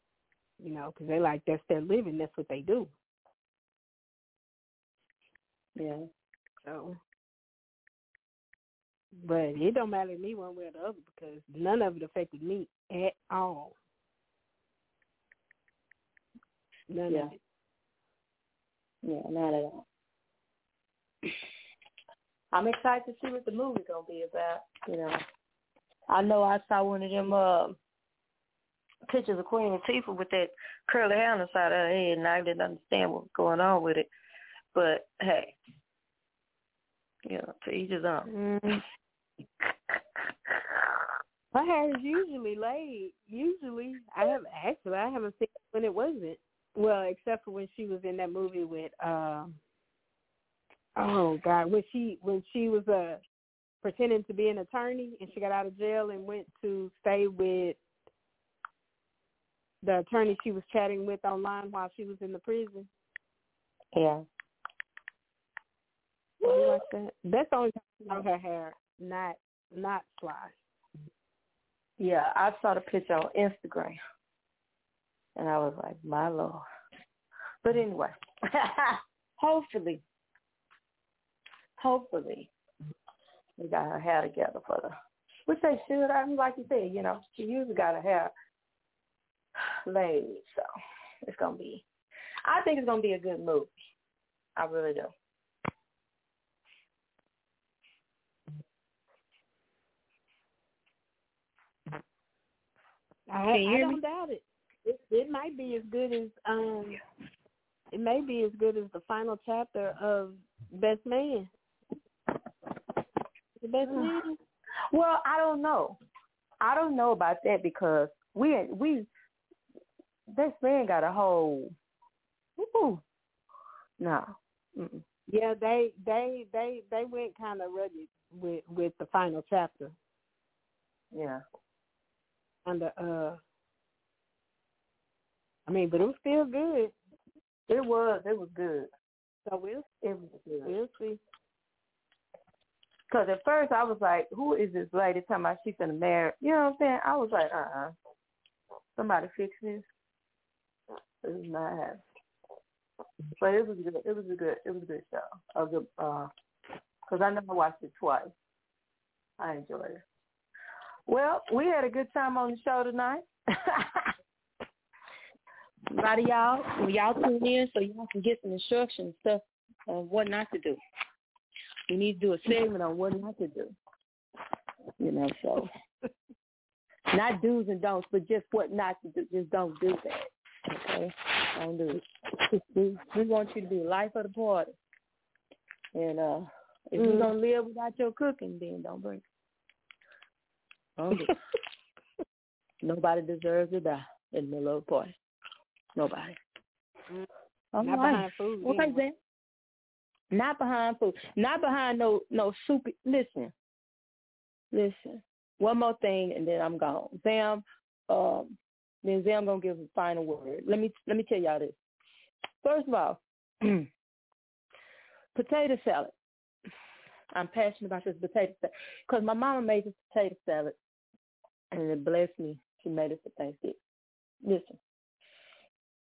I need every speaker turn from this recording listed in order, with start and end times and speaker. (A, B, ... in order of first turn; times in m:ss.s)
0:00.6-0:02.9 A
0:05.8-0:06.0 B
0:06.6-0:07.0 A
0:09.2-0:13.7 A
0:16.9-0:17.4 A
0:17.1-0:17.3 B
0:19.0-0:19.8 B
0:22.5-0:25.2 B
0:26.1-0:27.8 B
0:29.1-0:34.1 B
0:34.7-0:35.6 B
0:37.2-0:38.3 B
0:38.3-0:38.8 A
0:41.5-0:49.6 A
0:51.0-0:53.2 A
0:53.8-0:57.8 A
0:59.8-1:02.9 A
1:03.9-1:04.2 B
1:06.4-1:06.8 B
1:06.4-1:10.5 A
1:12.0-1:14.0 B
1:15.4-1:16.6 B
1:17.6-1:20.0 B
1:21.8-1:22.5 B
1:23.6-1:24.9 B
1:25.4-1:28.3 B
1:29.8-1:30.6 B
1:31.2-1:31.8 B
1:32.4-1:33.7 B
1:34.6-1:35.1 B
1:43.3-1:47.0 A
1:43.4-1:44.0 B
1:47.9-1:51.5 A
1:53.6-1:54.4 A
1:53.9-1:54.2 B
1:54.9-1:56.0 B
1:56.6-1:59.1 B
2:00.3-2:01.7 B
2:02.6-2:03.0 B
2:04.0-2:05.0 B
2:05.3-2:09.9 A
2:11.1-2:11.4 B
2:12.6-2:13.4 A
2:15.7-2:16.9 A
2:17.7-2:18.9 B
2:19.4-2:19.8 A
2:20.0-2:20.8 B
2:20.6-2:21.2 A
2:23.1-2:27.9 B
2:28.9-2:29.9 B
2:31.2-2:32.0 B
2:33.4-2:36.3 B
2:37.1-2:38.3 B
2:39.4-2:40.0 B
2:41.1-2:44.1 B
2:45.9-2:50.8 B
2:51.9-2:53.7 B
2:55.0-2:55.7 B
2:57.1-3:02.0 B
3:02.7-3:04.8 B
3:05.9-3:09.2 B
3:07.0-3:07.3 A
3:11.0-3:11.4 B
3:12.8-3:15.1 B
3:16.0-3:16.4 B
3:17.7-3:19.1 B
3:17.8-3:19.0 A
3:20.3-3:23.5 B
3:24.7-3:31.8 B
3:32.6-3:33.9 B
3:35.3-3:36.1 B
3:37.3-3:40.8 B
3:41.7-3:43.8 B
3:44.4-3:44.8 B